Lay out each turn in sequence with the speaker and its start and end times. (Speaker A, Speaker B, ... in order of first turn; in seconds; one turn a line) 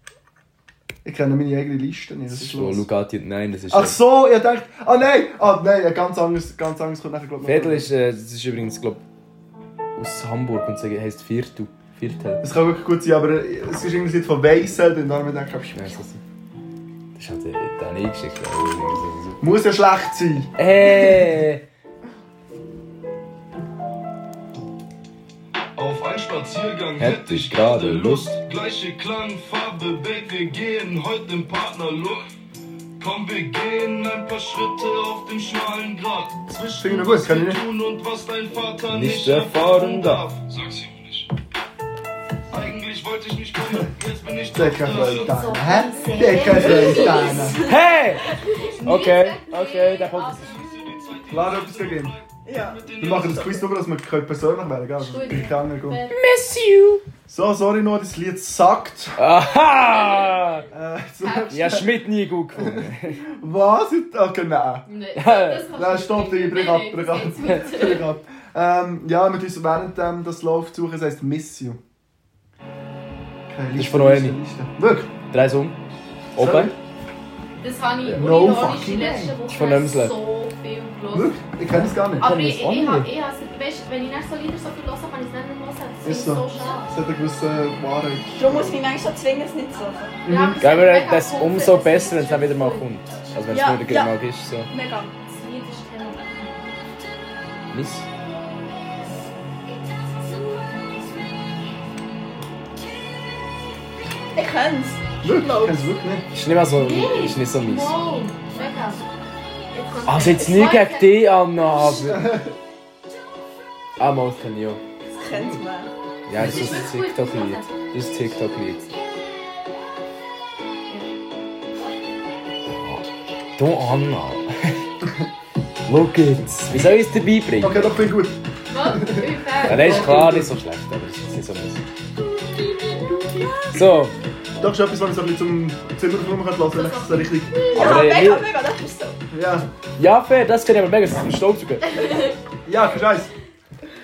Speaker A: 1.0-2.9
Speaker B: 2.3-4.0
Speaker A: 3.7-7.9
Speaker B: 7.4-9.0
Speaker B: 9.9-12.4
Speaker A: 12.4-16.0
Speaker B: 15.7-16.2
Speaker B: 17.1-19.4
Speaker A: 19.4-20.5
Speaker B: 20.6-21.6
Speaker C: 25.8-32.3
Speaker B: 27.0-28.4
Speaker C: 33.0-41.3
Speaker A: 36.7-37.6
Speaker B: 38.9-40.3
Speaker C: 42.5-45.4
Speaker A: 44.5-47.6
Speaker D: 45.0-51.2
Speaker C: 46.3-46.7
Speaker B: 47.6-48.3
Speaker B: 48.8-50.6
Speaker C: 50.4-53.5
Speaker A: 51.3-52.2
Speaker E: 52.4-53.6
Speaker A: 53.0-56.0
Speaker D: 55.0-56.2
Speaker B: 56.1-57.0
Speaker A: 57.3-59.2
Speaker B: 59.2-60.6
Speaker A: 60.7-61.9
Speaker D: 61.2-61.6
Speaker B: 61.5-63.3
Speaker A: 62.5-64.8
Speaker D: 64.8-68.0
Speaker B: 65.1-65.7
Speaker A: 65.7-71.8
Speaker A: 73.5-75.1
Speaker B: 73.8-74.4
Speaker B: 75.3-75.8
Speaker B: 76.3-76.7
Speaker A: 76.3-76.8
Speaker D: 77.6-81.4
Speaker A: 78.0-79.3
Speaker B: 79.5-80.1
Speaker A: 81.1-82.3
Speaker D: 82.2-86.9
Speaker B: 82.2-83.1
Speaker A: 86.0-88.8
Speaker E: 88.3-90.2
Speaker A: 90.2-90.6
Speaker D: 90.2-92.9
Speaker B: 90.6-94.7
Speaker E: 93.5-94.1
Speaker E: 94.7-95.1
Speaker D: 95.3-96.8
Speaker B: 97.7-98.1
Speaker E: 104.3-105.9
Speaker A: 105.2-106.3
Speaker B: 106.3-108.0
Speaker D: 106.8-109.0
Speaker D: 109.7-111.2
Speaker B: 110.1-112.4
Speaker A: 112.0-112.5
Speaker B: 114.0-114.8
Speaker E: 115.1-115.9
Speaker B: 116.3-118.9
Speaker A: 116.3-116.8
Speaker D: 116.4-117.7
Speaker B: 122.7-123.0
Speaker B: 123.6-124.8
Speaker B: 125.9-128.0
Speaker A: 127.6-130.5
Speaker D: 128.7-130.4
Speaker B: 129.6-131.8
Speaker A: 132.5-133.5
Speaker E: 133.4-133.9
Speaker B: 133.7-134.1
Speaker A: 134.6-137.8
Speaker D: 136.7-138.0
Speaker E: 137.7-139.2
Speaker B: 137.7-138.5
Speaker A: 139.3-139.7
Speaker B: 140.0-142.0
Speaker D: 141.9-142.3
Speaker A: 142.7-143.3